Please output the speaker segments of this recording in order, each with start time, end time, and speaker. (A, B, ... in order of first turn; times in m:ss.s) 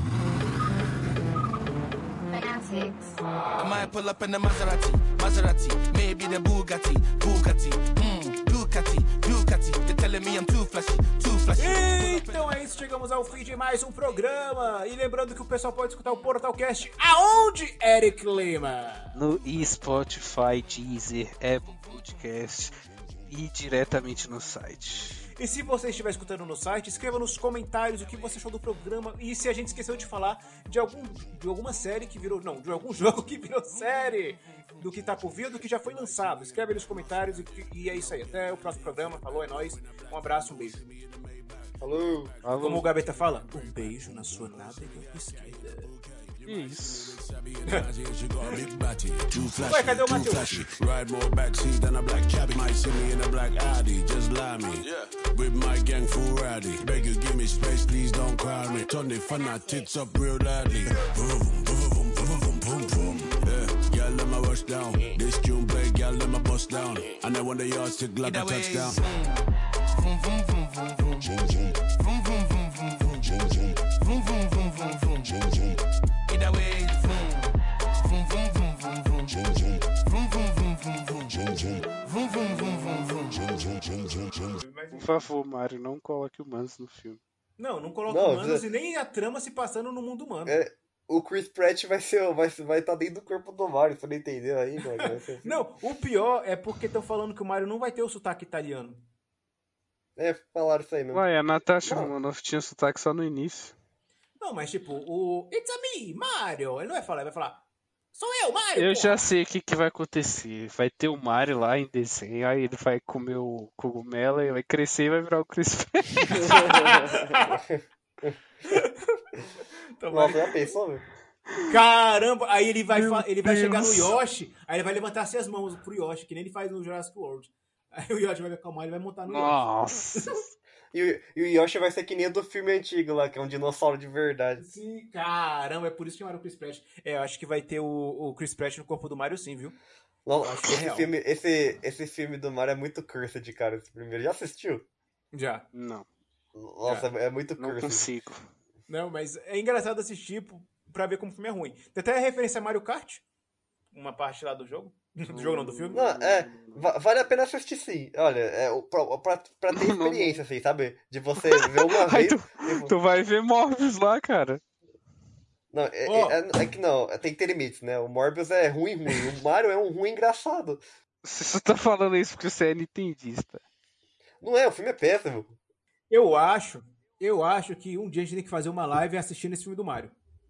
0:03.6-0:12.7 A
0:11.6-0:19.2 B
0:19.1-0:25.3 C
0:25.4-0:40.8 B
0:34.8-0:35.2 D
0:35.8-1:09.0 D
0:41.8-0:42.3 E
0:42.4-0:42.9 C
0:42.6-0:45.9 B
0:46.4-0:47.2 C
0:49.6-0:50.7 B
1:08.2-1:24.5 A
1:24.5-1:25.2 B
1:24.9-1:27.2 C
1:27.6-1:30.6 B
1:28.1-1:28.6 E
1:30.4-1:35.4 E
1:35.4-1:39.0 B
1:40.2-1:41.2 E
1:41.1-1:43.7 C
1:41.8-1:42.1 E
1:44.4-1:47.6 B
1:48.1-1:49.2 B
1:48.8-1:56.9 C
1:56.4-1:57.6 B
1:57.5-1:58.4 E
1:58.7-2:00.7 B
2:00.1-2:01.0 E
2:01.7-2:09.6 B
2:02.9-2:04.1 C
2:09.3-2:10.4 C
2:10.9-2:14.6 E
2:14.6-2:19.8 B
2:20.2-2:24.8 E
2:20.4-2:21.1 B
2:25.3-2:25.6 B
2:25.7-2:26.0 C
2:26.6-2:28.1 E
2:26.8-2:27.1 B
2:27.6-2:28.4 C
2:28.9-2:33.2 B
2:33.9-2:36.1 B
2:35.3-2:36.9 C
2:35.9-2:42.9 E
2:39.7-2:40.4 C
2:41.4-2:44.6 C
2:45.7-2:50.8 E
2:46.0-2:46.4 B
2:51.2-2:53.6 C
2:54.4-2:55.6 E
2:56.1-3:00.1 B